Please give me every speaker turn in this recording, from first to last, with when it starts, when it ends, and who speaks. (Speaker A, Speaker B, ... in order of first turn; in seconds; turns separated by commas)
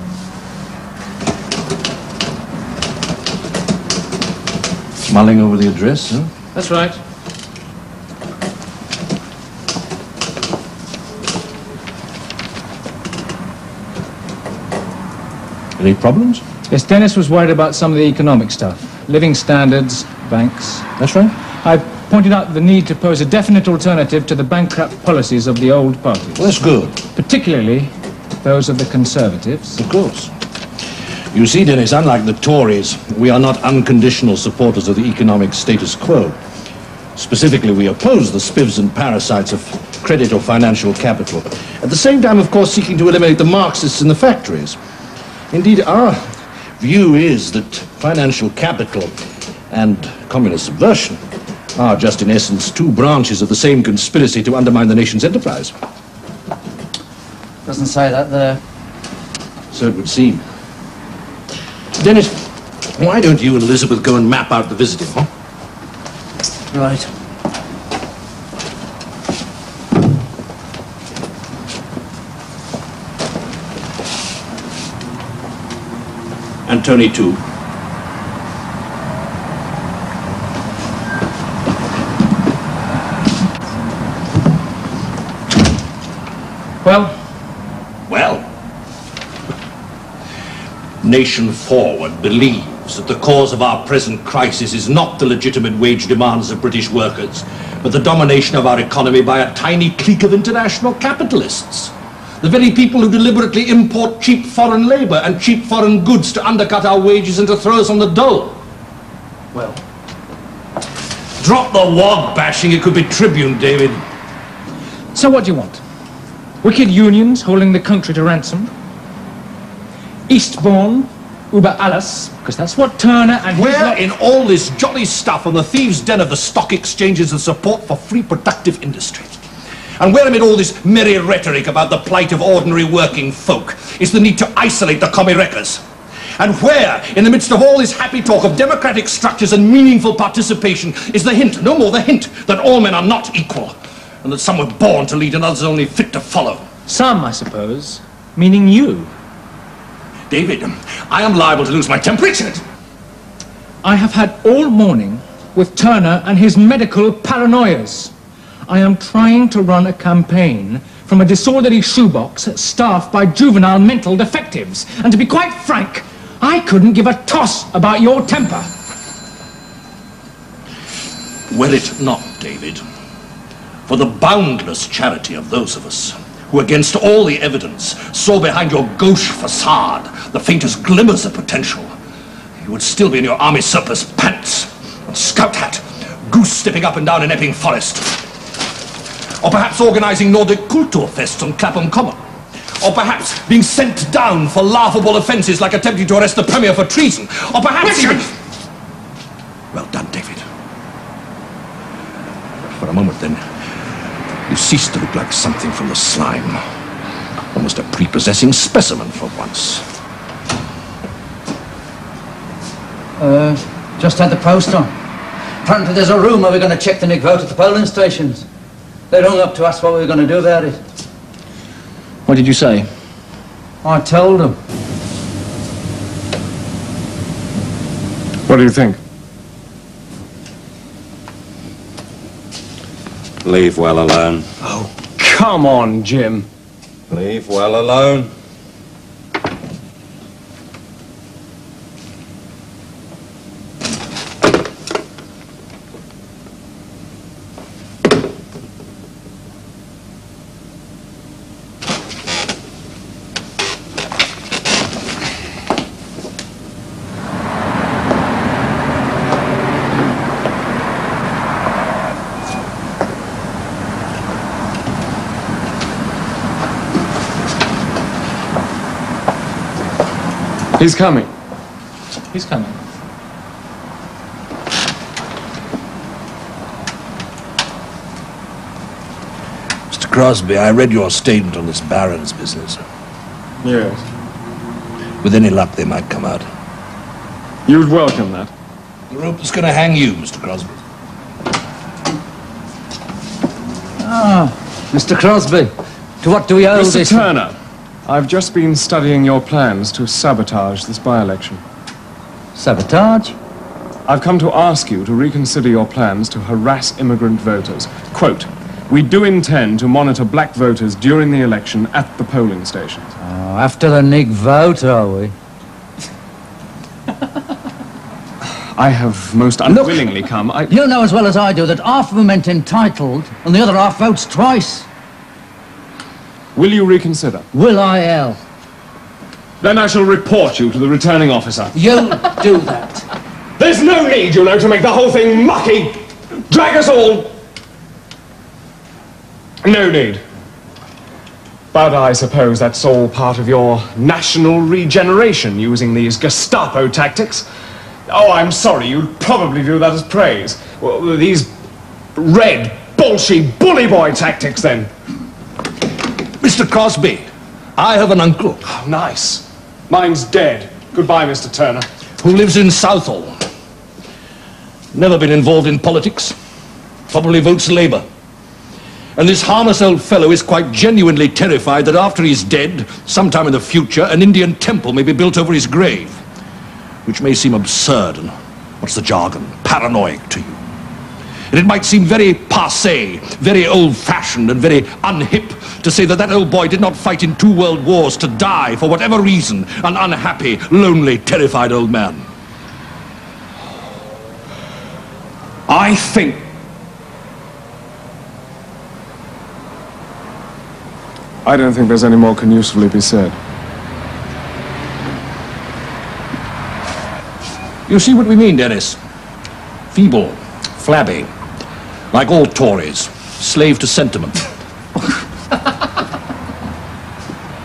Speaker A: 5.9-6.2, Speaker B: 6.5-7.0, Speaker A: 15.8-16.4, Speaker B: 16.7-20.9, Speaker A: 21.0-21.3, Speaker B: 21.6-26.4, Speaker A: 26.4-27.0, Speaker B: 27.1-29.8, Speaker A: 29.9-30.3, Speaker A: 31.3-36.4, Speaker A: 37.1-44.8, Speaker A: 45.5-49.1, Speaker A: 49.7-51.2, Speaker A: 51.7-55.7, Speaker C: 57.6-58.6, Speaker A: 59.7-60.4, Speaker A: 62.0-62.4, Speaker A: 62.9-65.3, Speaker C: 66.7-67.1, Speaker A: 76.7-77.4, Speaker B: 86.8-87.1, Speaker A: 88.1-88.5, Speaker A: 91.0-108.6, Speaker A: 109.5-109.8, Speaker A: 111.4-114.0, Speaker B: 115.1-115.8, Speaker B: 116.6-118.7, Speaker B: 120.3-124.1, Speaker A: 123.5-129.3, Speaker A: 130.0-135.8, Speaker A: 136.4-146.7, Speaker B: 146.9-149.1, Speaker A: 150.3-152.6, Speaker B: 153.8-158.1, Speaker B: 158.7-168.7, Speaker A: 171.5-172.8, Speaker A: 173.9-181.9, Speaker A: 182.6-188.2, Speaker A: 189.4-192.2, Speaker A: 192.8-198.3, Speaker A: 199.7-200.4, Speaker A: 202.7-203.4, Speaker A: 204.5-206.6, Speaker A: 207.5-209.8, Speaker C: 213.2-214.9, Speaker C: 215.6-218.4, Speaker C: 219.1-220.8, Speaker C: 223.8-224.6, Speaker D: 228.5-229.0, Speaker E: 233.4-234.5, Speaker D: 234.6-236.5, Speaker E: 237.1-238.3, Speaker D: 270.8-271.3, Speaker B: 272.3-272.8, Speaker A: 279.9-282.8, Speaker D: 283.6-284.0, Speaker A: 285.2-286.5, Speaker D: 287.6-288.5, Speaker A: 289.1-290.8, Speaker C: 294.0-297.3, Speaker D: 296.7-301.6, Speaker C: 302.6-303.4, Speaker D: 304.1-313.1, Speaker C: 313.2-315.3, Speaker D: 318.8-320.7, Speaker C: 319.7-320.0, Speaker C: 320.7-324.9, Speaker D: 326.5-327.4, Speaker C: 327.5-328.4, Speaker D: 329.6-331.7, Speaker C: 331.7-333.0, Speaker D: 333.6-337.3, Speaker D: 339.6-340.2, Speaker D: 341.7-347.4, Speaker D: 348.1-351.5, Speaker D: 352.1-354.9, Speaker A: 356.4-358.6, Speaker D: 358.6-361.9, Speaker A: 362.2-363.4, Speaker A: 364.9-366.3, Speaker A: 367.1-368.0, Speaker A: 369.1-376.2, Speaker A: 377.0-380.6, Speaker A: 381.5-392.3, Speaker D: 395.7-396.4, Speaker D: 401.4-403.4, Speaker A: 407.9-409.0, Speaker A: 409.9-411.3, Speaker A: 412.1-414.4